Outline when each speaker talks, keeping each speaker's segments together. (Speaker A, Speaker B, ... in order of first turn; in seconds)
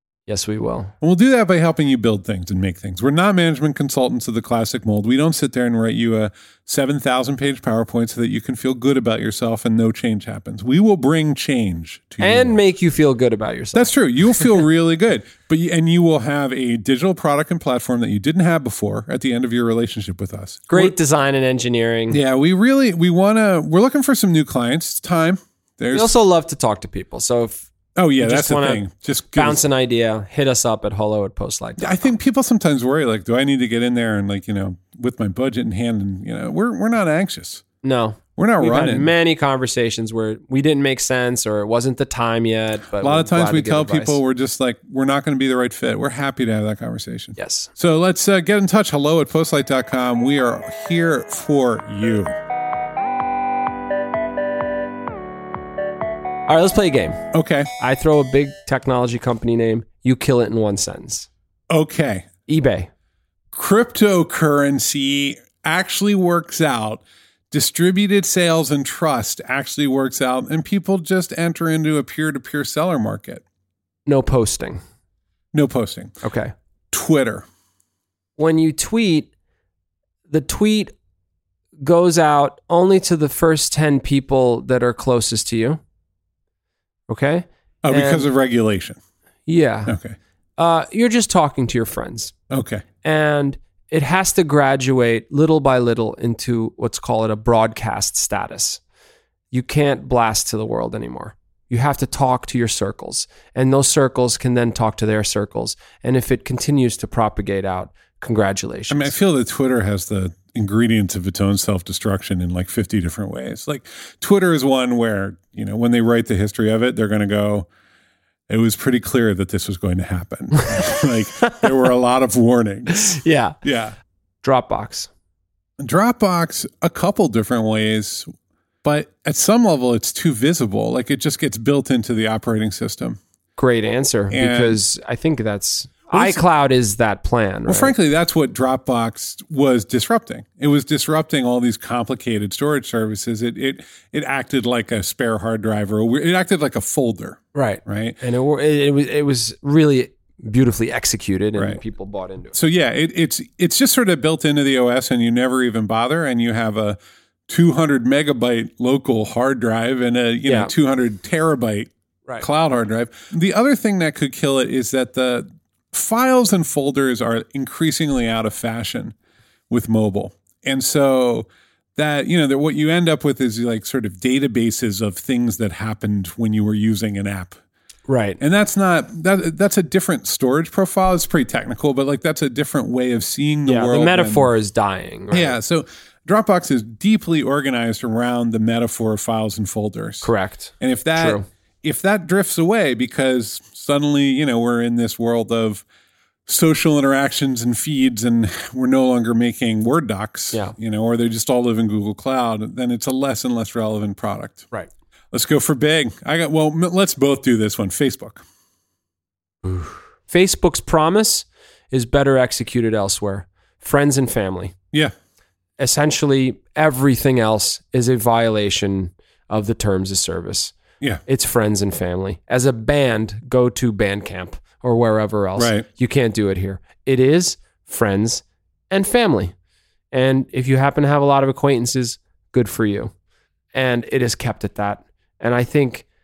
Speaker A: 0.3-0.9, 12.2-14.5, 20.7-22.2, 25.9-27.6, 28.2-28.8, 29.3-32.1, 37.8-44.2, 47.4-47.7, 56.5-57.2, 57.8-61.3, 62.5-62.9, 74.1-74.8, 76.2-76.5, 78.4-79.3, 80.3-80.9, 81.8-85.8, 87.1-88.3, 89.5-89.9, 90.6-92.3, 93.0-98.8, 99.5-109.1, 120.5-121.7, 122.9-123.5, 124.4-125.1, 133.6-137.9, 147.5-152.5, 160.4-160.7, 178.1-178.4, 183.7-185.6, 190.2-191.4, 209.6-214.7, 215.8-229.5, 230.1-233.1, 233.7-236.1
Speaker B: 1.0-12.6, 13.7-20.9, 22.1-26.1, 27.9-29.6, 31.8-37.6, 38.4-39.1, 42.9-52.3, 57.3-57.7, 61.7-62.3, 63.5-73.4, 75.5-76.1, 76.9-77.5, 87.8-89.0, 89.9-90.2, 92.5-92.8, 108.9-117.7, 118.5-124.0, 125.8-128.3, 128.8-133.2, 134.3-134.8, 136.1-136.4, 137.7-148.2, 152.5-157.0, 157.5-169.1, 169.7-177.6, 178.4-184.5, 185.3-195.8, 196.5-204.7, 205.3-208.4, 225.6-225.9